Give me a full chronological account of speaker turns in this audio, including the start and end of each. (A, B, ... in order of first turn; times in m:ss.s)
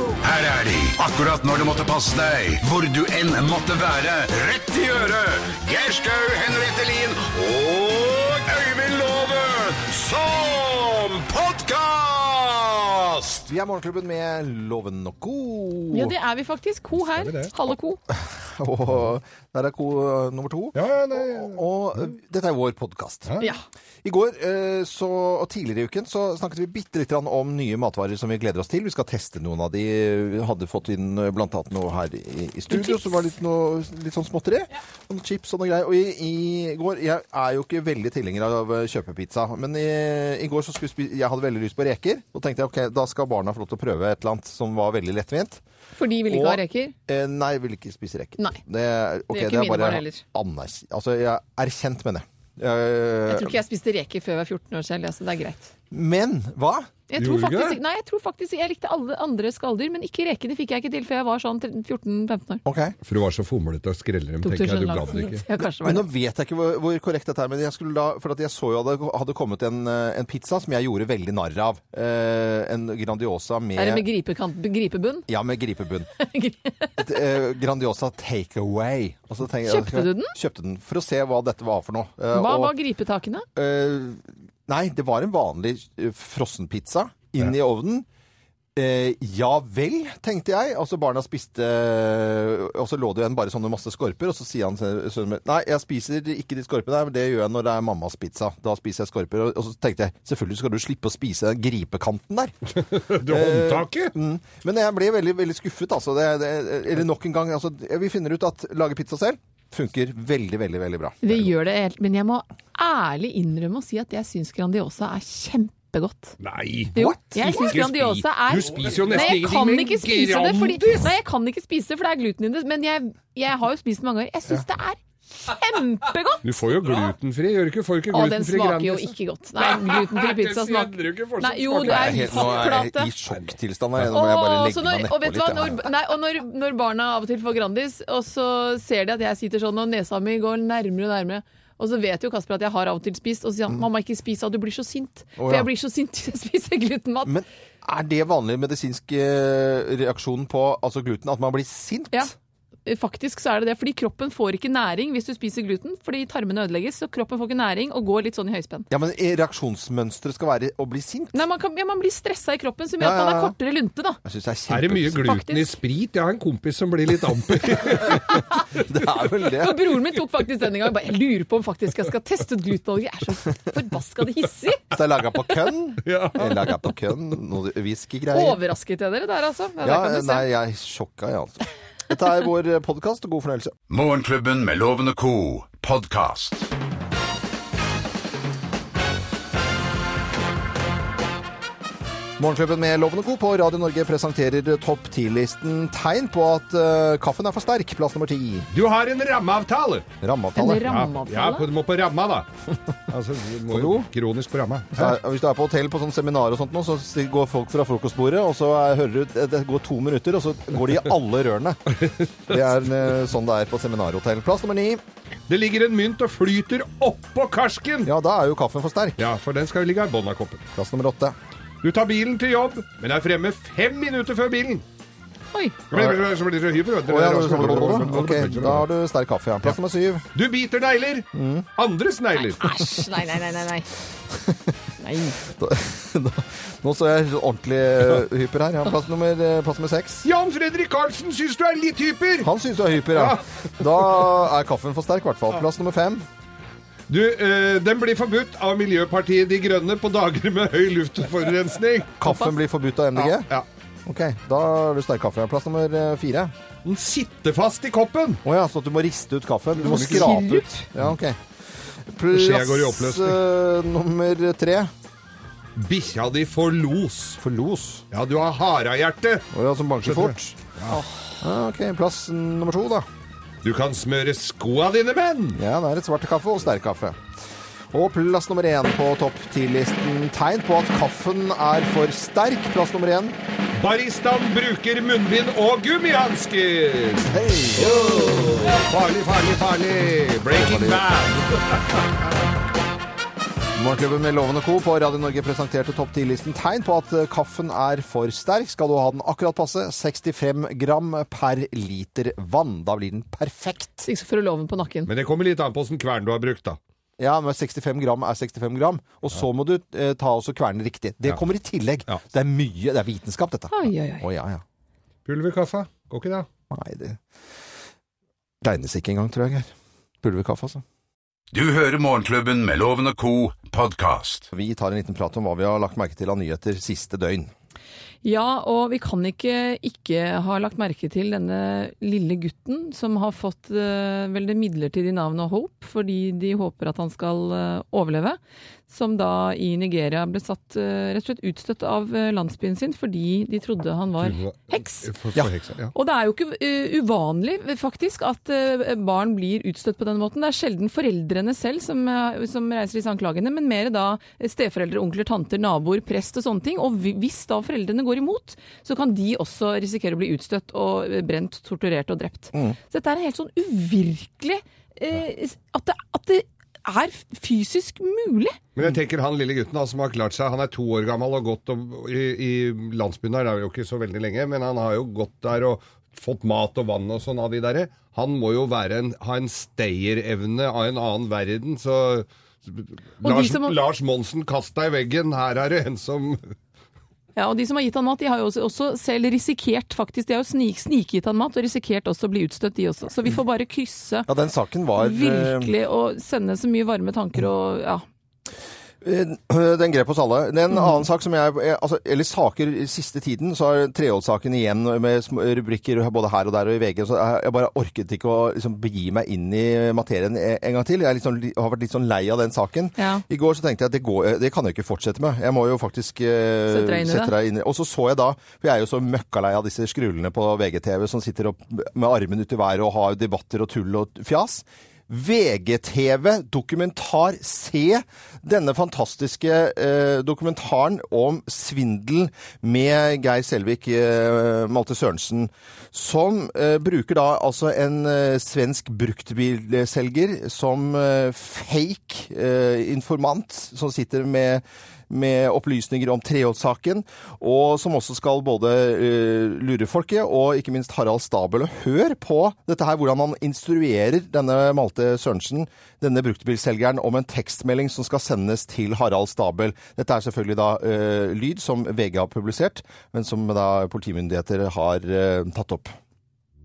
0:00.2-0:13.4 A
0:13.5-0:16.1 B
0:15.9-0:18.0 C
0:17.0-0:17.6 D
0:18.1-0:23.3 B
0:20.7-0:21.6 D
0:24.0-0:45.6 B
0:32.7-0:33.2 C
0:46.0-0:46.9 C
0:46.3-0:53.6 B
0:49.3-0:50.2 C
0:53.3-0:55.7 C
0:55.9-0:56.9 B
0:57.1-1:02.6 C
0:57.1-0:57.8 D
1:02.6-1:03.0 B
1:03.0-1:05.4 D
1:04.4-1:06.0 C
1:05.6-1:14.1 B
1:13.8-1:15.3 C
1:15.3-1:16.1 B
1:16.2-1:17.0 C
1:17.0-1:22.7 B
1:19.6-1:20.3 C
1:22.3-1:23.4 C
1:23.6-1:28.0 B
1:28.8-1:42.5 B
1:42.8-1:44.1 D
1:43.1-1:51.5 B
1:51.2-1:56.4 C
1:56.4-2:01.1 D
1:56.9-1:57.6 B
1:56.9-2:07.1 C
2:06.4-2:14.1 D
2:08.1-2:13.1 C
2:11.8-2:15.9 B
2:14.1-2:27.3 C
2:25.4-2:25.7 B
2:27.2-2:32.3 B
2:32.8-2:38.9 C
2:38.9-2:41.4 B
2:41.3-2:44.2 C
2:43.0-2:43.6 B
2:44.2-2:45.2 B
2:44.7-2:48.3 D
2:45.2-2:45.7 C
2:47.6-2:48.2 B
2:48.8-2:49.8 B
2:49.5-2:54.8 C
2:54.9-2:58.6 B
2:56.0-2:56.9 D
2:58.3-3:00.5 C
2:59.8-3:03.7 B
3:03.9-3:06.7 A
3:12.4-3:18.7 B
3:18.7-3:20.1 D
3:20.2-3:20.9 B
3:20.6-3:21.7 C
3:20.8-3:22.5 D
3:23.1-3:25.2 D
3:23.7-3:24.1 B
3:24.9-3:35.0 B
3:32.0-3:32.6 D
3:35.5-3:38.1 D
3:38.0-3:39.2 B
3:39.2-3:40.7 D
3:40.7-3:41.4 B
3:41.8-3:44.8 D
3:45.5-3:45.8 C
3:45.9-3:48.9 D
3:45.9-3:46.3 B
3:47.1-3:50.2 B
3:50.3-3:52.6 D
3:51.3-3:51.6 B
3:52.4-3:53.9 C
3:54.3-3:54.8 B
3:55.0-3:55.4 C
3:55.5-4:00.3 B
4:00.2-4:02.5 D
4:02.4-4:06.2 B
4:03.1-4:03.4 D
4:07.1-4:12.2 D
4:12.2-4:13.5 B
4:12.2-4:12.5 C
4:13.2-4:13.6 D
4:14.0-4:16.5 B
4:16.8-4:18.4 D
4:18.4-4:21.4 B
4:19.8-4:20.3 D
4:19.8-4:20.8 C
4:22.1-4:24.9 B
4:22.3-4:23.4 D
4:25.8-4:27.4 D
4:27.4-4:28.0 B
4:28.1-4:29.5 D
4:29.5-4:30.6 B
4:30.0-4:31.0 D
4:30.9-4:31.2 C
4:31.4-4:33.1 B
4:33.6-4:35.6 D
4:35.5-4:37.2 B
4:37.9-4:43.4 B
4:43.7-4:52.3 D
4:47.3-4:48.8 B
4:50.5-4:51.0 B
4:53.7-5:04.0 B
5:04.0-5:05.1 C
5:05.0-5:06.8 D
5:07.2-5:14.6 B
5:13.7-5:14.2 C
5:15.2-5:16.5 D
5:16.7-5:17.2 B
5:18.6-5:19.7 B
5:20.2-5:20.8 B
5:21.5-5:24.5 A
5:24.5-5:27.5 B
5:28.2-5:45.1 C
5:44.2-5:45.9 D
5:45.9-6:08.6 C
6:08.8-6:26.5 D
6:23.2-6:23.8 C
6:27.4-6:34.3 C
6:34.3-6:35.7 B
6:35.0-6:38.0 C
6:39.0-7:45.9 B
6:53.0-6:53.2 C
6:56.7-6:57.3 C